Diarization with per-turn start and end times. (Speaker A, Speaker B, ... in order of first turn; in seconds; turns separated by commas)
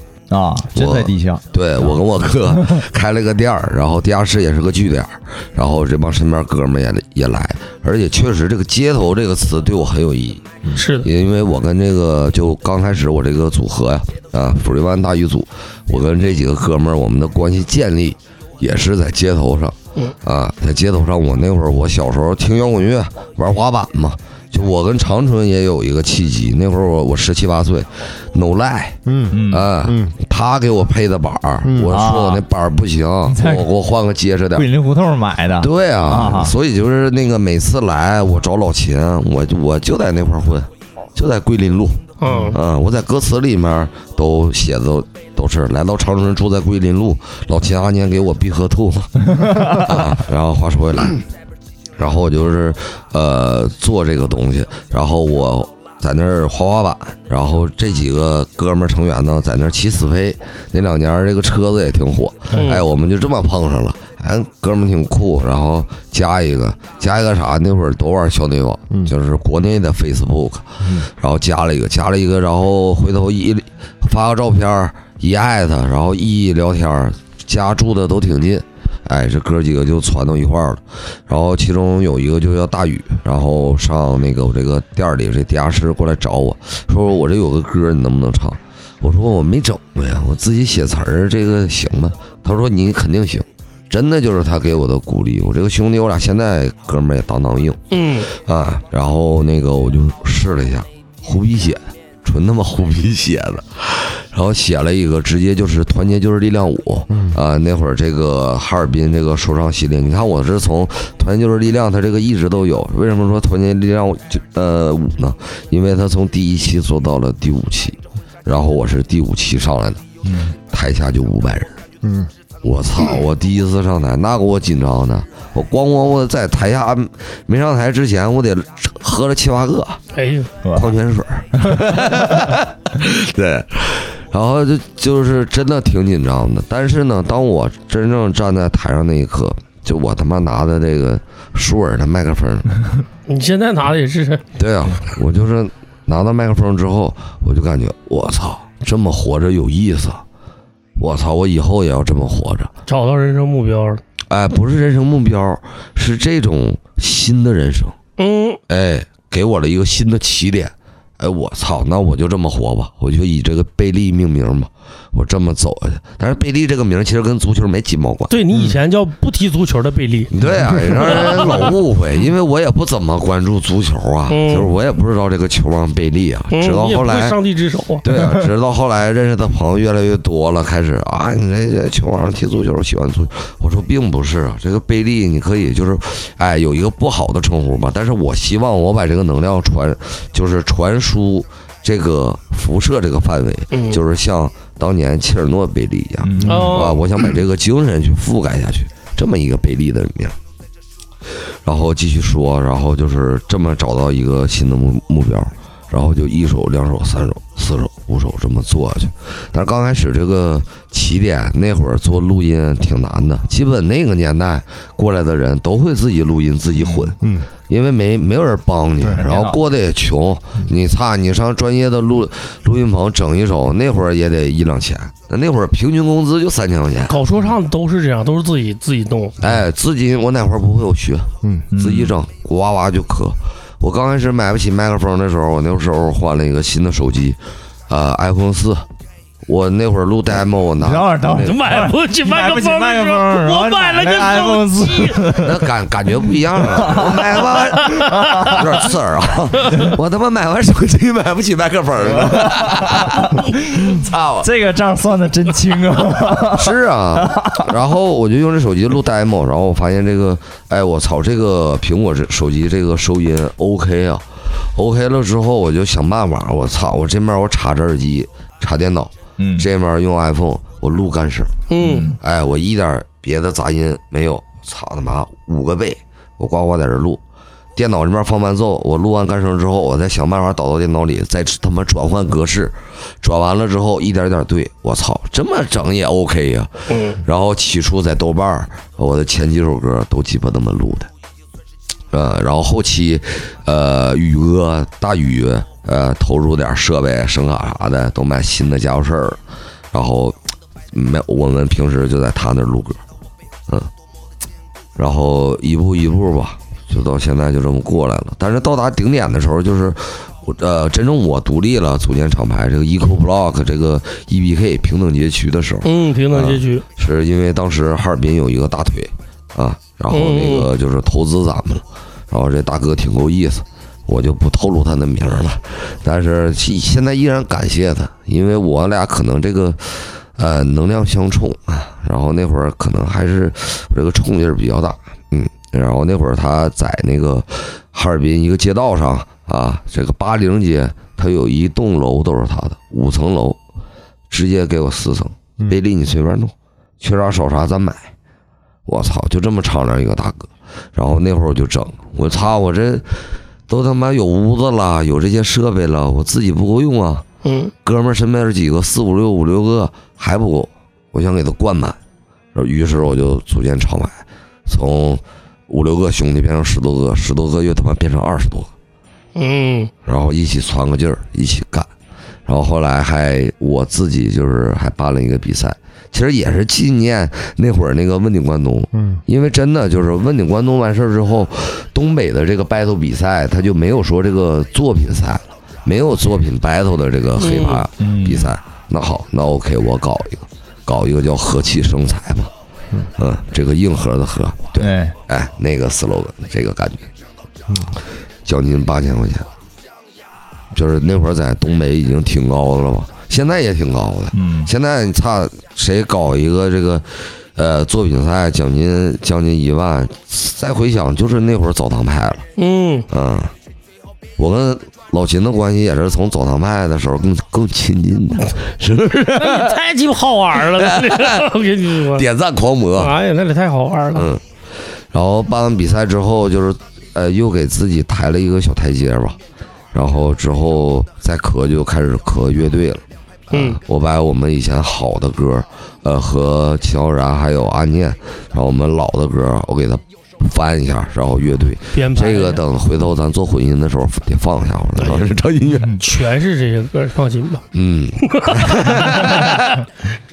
Speaker A: 0.3-2.8, Speaker B: 0.7-34.7, Speaker C: 10.7-11.1, Speaker D: 29.1-30.1, Speaker A: 29.3-29.7, Speaker D: 31.6-31.9, Speaker A: 31.9-32.4, Speaker A: 33.3-33.7, Speaker A: 34.6-36.5, Speaker B: 35.6-51.2, Speaker C: 42.2-42.6, Speaker A: 42.3-42.5, Speaker A: 49.4-50.0, Speaker B: 52.0-120.0, Speaker C: 62.5-62.8, Speaker D: 70.8-71.1, Speaker C: 97.9-98.3, Speaker D: 107.1-107.4, Speaker A: 120.2-120.6, Speaker B: 120.7-121.8, Speaker D: 122.0-122.3, Speaker B: 122.6-130.0, Speaker C: 130.1-130.5, Speaker A: 130.6-130.9, Speaker B: 130.7-142.8, Speaker A: 131.6-132.5, Speaker C: 143.3-144.4, Speaker B: 144.6-150.2, Speaker B: 151.0-152.7, Speaker C: 152.9-154.0, Speaker B: 154.3-158.0, Speaker C: 158.2-158.6, Speaker B: 158.7-168.3, Speaker C: 168.3-171.7, Speaker B: 170.3-177.4, Speaker C: 174.3-174.7, Speaker C: 176.5-178.0, Speaker B: 178.0-200.4, Speaker C: 193.7-194.0, Speaker A: 196.2-196.9, Speaker C: 196.4-197.0, Speaker B: 201.6-217.2, Speaker D: 217.2-217.5, Speaker B: 217.7-227.2, Speaker A: 219.2-219.6, Speaker C: 227.1-229.4, Speaker B: 229.4-238.9, Speaker A: 231.7-232.2, Speaker B: 239.4-241.6, Speaker A: 240.8-245.7, Speaker C: 241.3-245.4, Speaker B: 245.4-254.5, Speaker A: 246.3-248.9, Speaker C: 247.8-248.6, Speaker A: 252.1-257.7, Speaker B: 256.5-271.6, Speaker A: 269.4-269.7, Speaker C: 271.7-272.1, Speaker A: 271.8-272.2, Speaker B: 272.2-277.2, Speaker B: 277.8-291.1, Speaker C: 286.9-287.2, Speaker B: 292.1-299.4, Speaker B: 299.9-300.4, Speaker B: 300.9-303.0, Speaker B: 305.0-343.6, Speaker C: 315.8-316.8, Speaker C: 320.1-320.7, Speaker B: 344.3-348.1, Speaker B: 348.9-357.2, Speaker C: 357.4-357.7, Speaker B: 357.8-362.0, Speaker B: 362.6-368.7, Speaker C: 369.4-369.9, Speaker B: 370.1-371.9, Speaker B: 372.5-392.5, Speaker D: 378.9-379.2, Speaker C: 387.4-387.9, Speaker A: 388.0-388.5, Speaker B: 393.2-397.1, Speaker A: 394.8-395.2, Speaker D: 397.7-397.9, Speaker B: 398.4-399.5, Speaker B: 400.7-412.5, Speaker A: 404.3-404.7, Speaker C: 412.6-413.1, Speaker B: 413.1-413.5, Speaker B: 414.4-419.8, Speaker C: 419.3-422.2, Speaker B: 420.7-421.5, Speaker B: 422.1-423.1, Speaker C: 423.0-424.3, Speaker B: 424.1-424.4, Speaker B: 425.1-429.4, Speaker B: 429.9-446.0, Speaker C: 433.5-433.8, Speaker C: 441.9-442.6, Speaker C: 446.0-447.6, Speaker B: 447.7-449.7, Speaker C: 448.3-449.6